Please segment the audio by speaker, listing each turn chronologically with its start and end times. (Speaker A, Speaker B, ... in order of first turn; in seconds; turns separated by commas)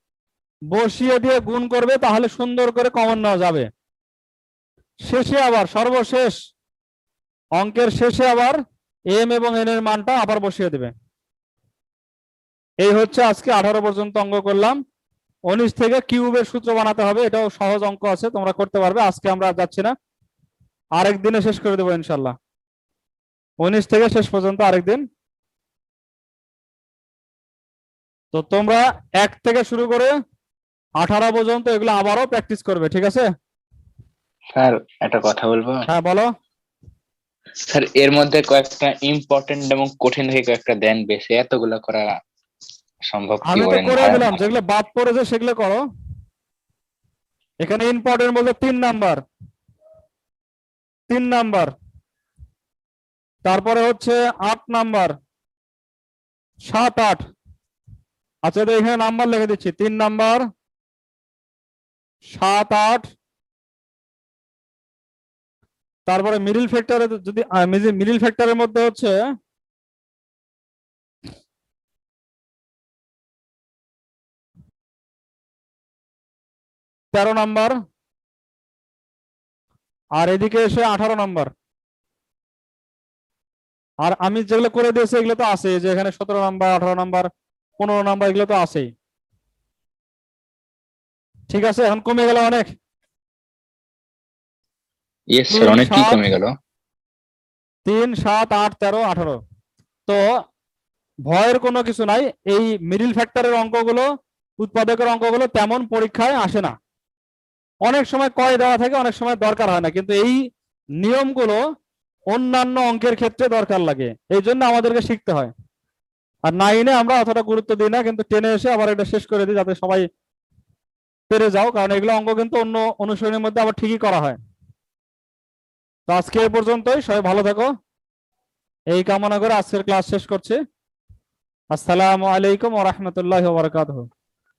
Speaker A: 0.7-3.7, Speaker A: 5.1-6.3, Speaker A: 7.6-8.6, Speaker A: 9.1-10.9, Speaker A: 12.8-14.8, Speaker A: 15.5-19.9, Speaker A: 21.0-22.4, Speaker A: 23.6-25.0, Speaker A: 28.3-30.1, Speaker A: 31.0-33.3, Speaker B: 34.5-35.9, Speaker A: 35.9-36.3, Speaker B: 37.6-42.1, Speaker B: 43.1-44.4, Speaker A: 43.5-45.8, Speaker A: 47.6-49.2, Speaker A: 51.1-51.7, Speaker A: 53.5-55.1, Speaker A: 56.7-57.2, Speaker A: 58.5-60.4, Speaker A: 62.3-63.1, Speaker A: 66.1-69.2, Speaker A: 77.1-77.7, Speaker A: 80.2-81.5, Speaker A: 84.0-88.9, Speaker A: 91.5-92.7, Speaker B: 95.3-96.5, Speaker A: 95.5-96.2, Speaker A: 97.9-99.4, Speaker A: 101.3-104.1, Speaker A: 104.6-106.8, Speaker A: 107.9-110.4, Speaker A: 111.0-111.6, Speaker A: 112.3-115.5, Speaker A: 116.5-120.1, Speaker A: 121.3-124.4, Speaker A: 126.1-127.7, Speaker A: 128.9-130.6, Speaker A: 131.7-134.1